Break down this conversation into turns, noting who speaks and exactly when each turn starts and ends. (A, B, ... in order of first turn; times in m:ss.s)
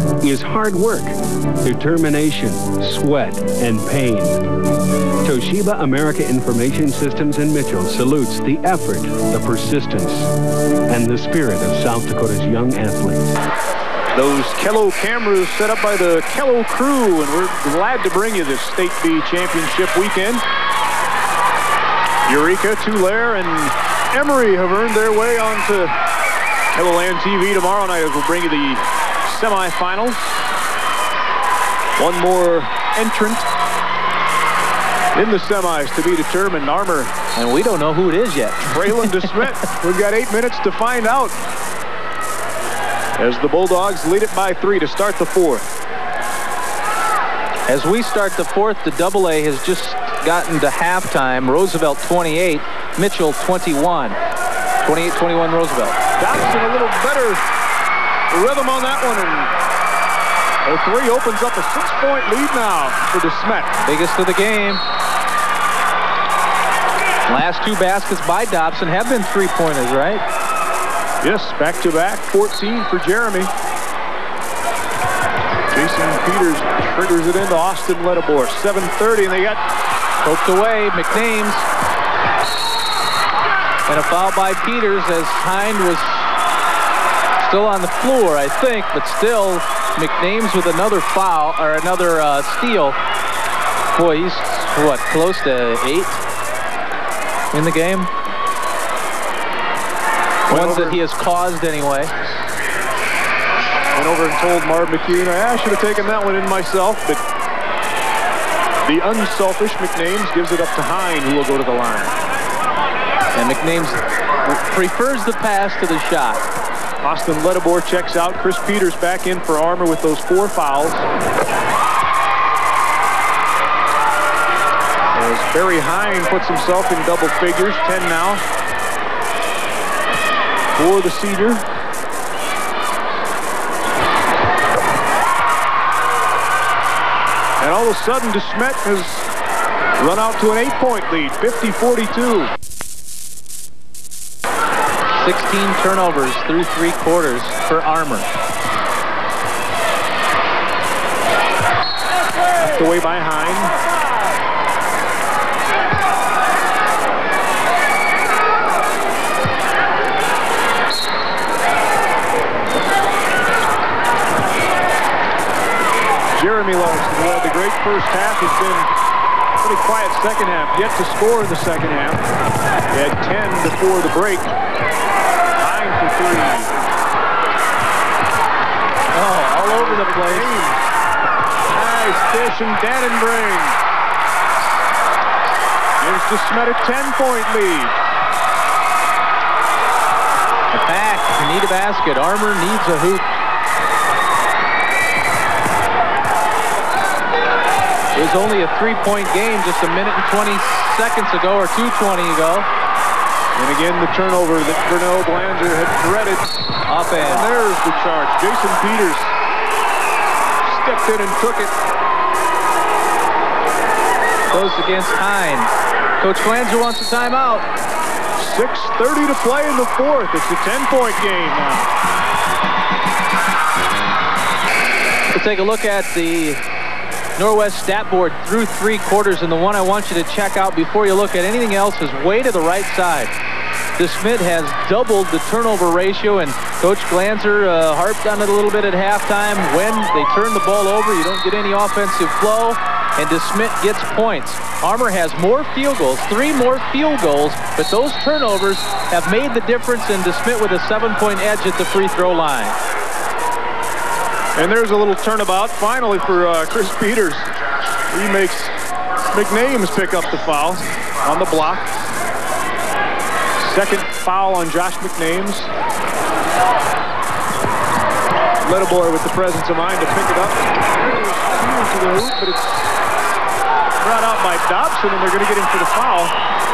0:00.2-0:04.7 A
0:05.2-0:13.4 A
0:14.1-0:20.4 B
0:22.3-0:25.9 B
0:26.7-0:30.3 B
0:32.0-0:33.5 B
0:35.1-0:37.1 B
0:37.4-0:39.3 C
0:38.7-0:41.4 B
0:43.2-0:45.7 B
0:47.7-0:54.2 C
0:54.8-0:56.0 C
0:56.2-0:57.4 B
0:58.3-0:59.5 B
1:00.6-1:03.8 B
1:03.8-1:04.8 C
1:07.3-1:10.2 C
1:11.2-1:13.5 B
1:15.7-1:19.6 B
1:20.2-1:21.7 C
1:23.9-1:26.3 C
1:27.4-1:33.0 C
1:33.9-1:36.2 C
1:37.5-1:38.1 C
1:40.5-1:41.0 B
1:40.5-1:42.1 C
1:44.0-1:47.2 B
1:48.8-1:52.1 B
1:53.4-1:56.5 C
1:57.0-2:01.1 B
2:05.1-2:08.4 B
2:10.8-2:11.6 B
2:17.6-2:19.3 B
2:20.0-2:22.5 B
2:25.2-2:28.3 C
2:32.6-2:33.8 B
2:46.3-2:48.9 B
2:49.6-2:52.2 B
2:52.9-2:54.5 B
2:55.6-2:56.8 B
2:59.1-3:00.5 C
2:59.6-3:00.8 B
3:01.7-3:03.8 B
3:06.0-3:08.0 B
3:10.7-3:13.3 C
3:18.1-3:22.7 C
3:23.6-3:29.3 B
3:26.9-3:27.5 C
3:30.6-3:31.7 B
3:34.5-3:37.7 C
3:38.4-3:41.9 B
3:45.3-3:46.6 C
3:47.4-3:53.3 C
3:54.0-4:12.8 C
4:14.6-4:17.5 B
4:18.1-4:18.7 B
4:19.3-4:21.9 B
4:23.6-4:25.7 B
4:28.6-4:32.8 B
4:34.0-4:36.4 B